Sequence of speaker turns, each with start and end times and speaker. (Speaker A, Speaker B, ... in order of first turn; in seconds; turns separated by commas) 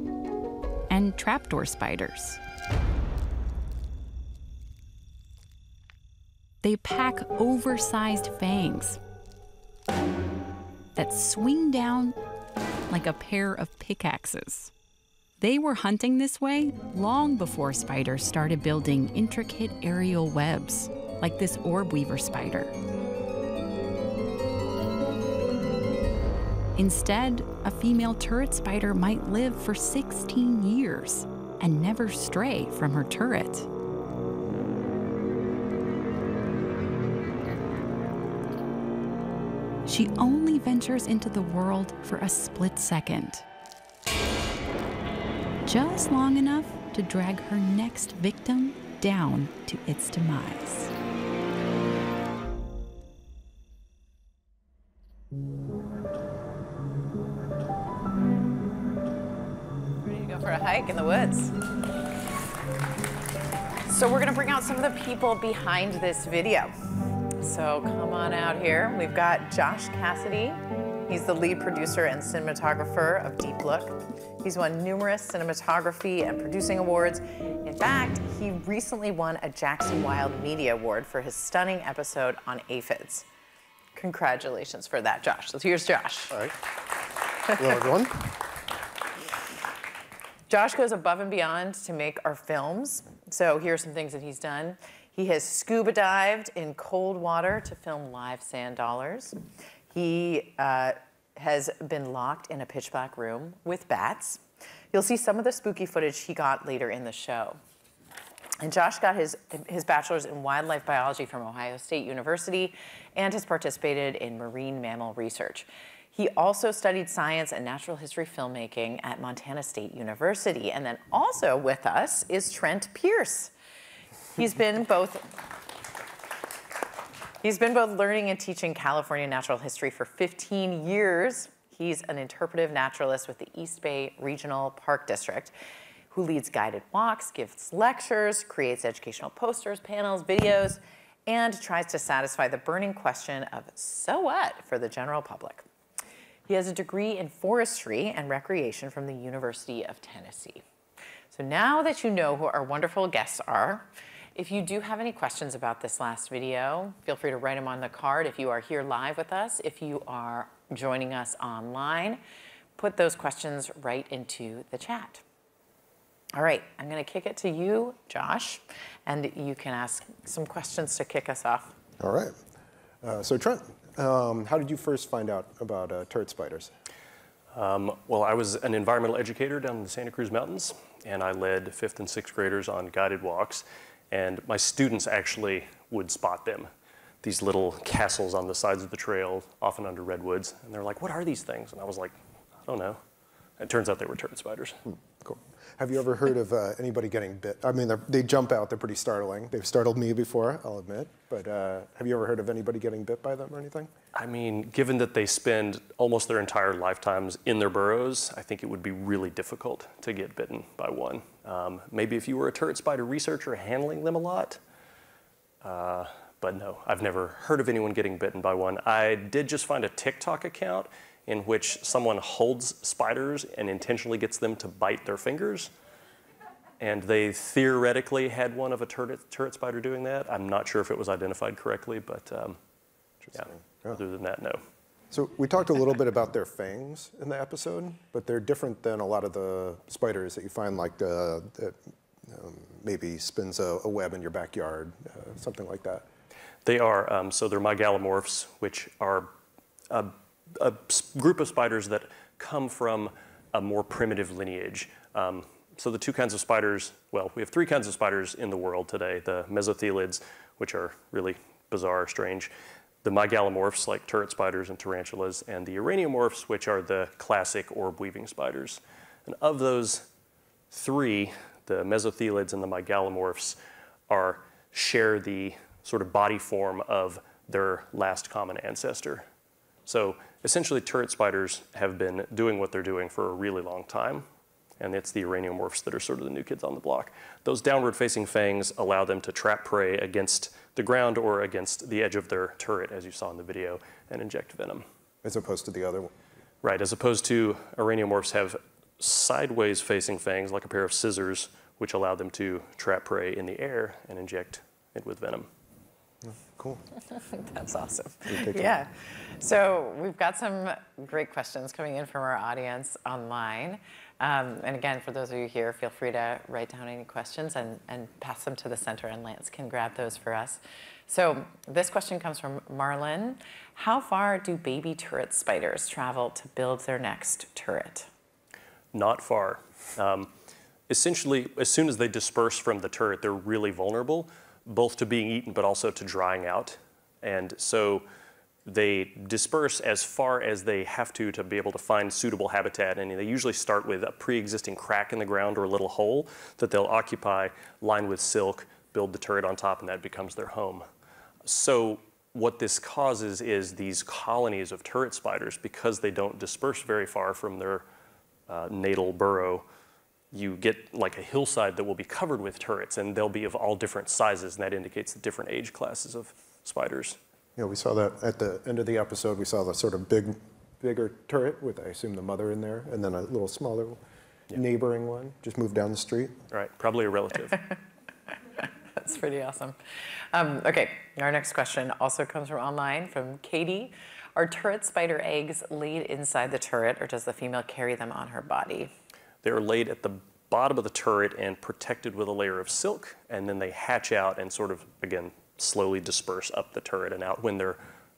Speaker A: 0.9-2.4, Speaker A: 6.6-9.0, Speaker A: 10.9-12.2, Speaker A: 12.9-14.7, Speaker A: 15.4-22.7, Speaker A: 26.8-33.7, Speaker A: 39.9-43.4, Speaker A: 45.6-50.9, Speaker B: 60.0-61.5, Speaker B: 63.9-66.7, Speaker B: 67.4-83.3, Speaker B: 84.0-86.4, Speaker C: 87.5-88.3, Speaker B: 90.5-99.4, Speaker B: 99.9-104.4, Speaker B: 104.9-107.6, Speaker B: 108.6-123.5, Speaker B: 124.4-125.3, Speaker B: 127.4-135.6, Speaker B: 136.1-145.7, Speaker B: 146.5-150.6, Speaker B: 151.3-162.2, Speaker B: 162.8-165.2, Speaker B: 166.3-171.8, Speaker C: 172.0-172.4, Speaker C: 173.0-176.7, Speaker D: 177.5-186.7, Speaker D: 187.2-193.0, Speaker D: 193.6-194.8, Speaker C: 194.9-203.9, Speaker D: 204.1-214.6, Speaker D: 215.6-225.7, Speaker D: 226.8-232.6, Speaker C: 233.2-234.0, Speaker D: 233.3-234.6, Speaker C: 235.1-246.1, Speaker D: 246.7-249.3, Speaker D: 249.9-262.5, Speaker D: 263.0-270.1, Speaker D: 270.7-273.6, Speaker D: 274.1-279.2, Speaker D: 279.9-284.3, Speaker D: 284.8-294.9, Speaker C: 295.2-296.1, Speaker D: 296.6-305.5, Speaker C: 306.2-306.8, Speaker B: 307.1-328.1, Speaker C: 308.3-308.8, Speaker D: 328.9-330.3, Speaker D: 330.9-338.0, Speaker D: 338.7-350.9, Speaker D: 351.4-357.9, Speaker D: 358.5-359.6, Speaker D: 360.3-367.2, Speaker C: 367.6-374.0, Speaker C: 374.5-376.4, Speaker D: 376.5-377.6, Speaker B: 378.6-388.9, Speaker D: 389.4-397.8